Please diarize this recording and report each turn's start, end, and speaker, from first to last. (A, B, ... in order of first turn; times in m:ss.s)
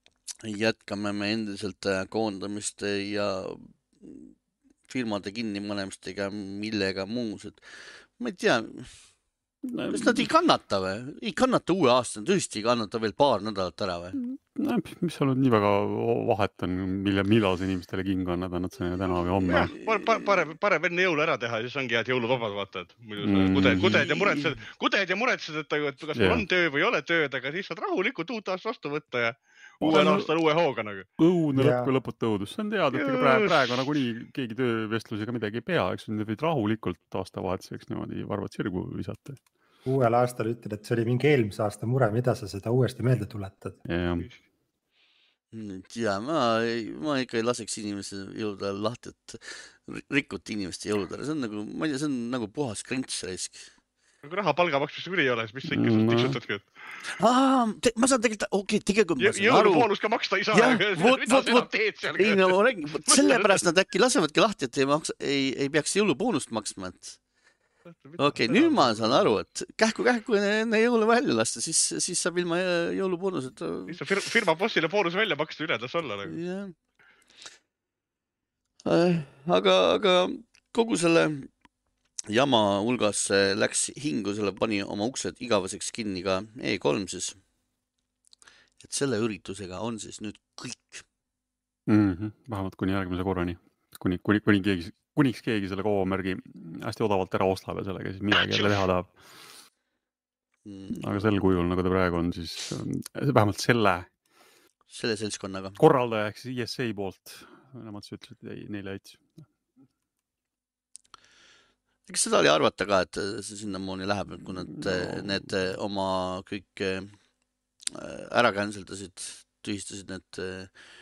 0:00.4-0:04.3 A
0:04.9-0:09.0 A
0:09.7-0:10.3 B
0:09.9-0:14.2 A
0:14.2-0:19.7 B
0:19.5-0:31.1 C
0:19.5-0:20.4 A
0:23.2-0:24.3 B
0:26.2-0:26.4 B
0:29.8-0:30.3 B
0:31.2-0:39.4 B
0:31.5-0:31.9 D
0:32.9-0:33.8 C
0:39.9-0:43.8 D
0:43.9-0:44.3 B
0:45.5-0:53.7 A
0:54.2-0:56.7 C
0:55.7-0:56.4 B
0:57.1-0:59.9 A
0:59.2-1:03.6 C
1:00.5-1:07.2 A
1:08.0-1:09.3 C
1:08.2-1:14.0 A
1:13.9-1:16.4 C
1:16.3-1:16.7 A
1:18.8-1:21.5 A
1:22.3-1:27.4 A
1:28.8-1:31.0 A
1:31.9-1:39.1 B
1:38.3-1:38.8 C
1:40.6-1:41.1 A
1:40.9-1:44.1 B
1:44.9-1:45.8 A
1:45.8-1:49.4 B
1:52.1-1:57.2 A
1:54.7-1:55.5 B
1:57.9-2:00.7 A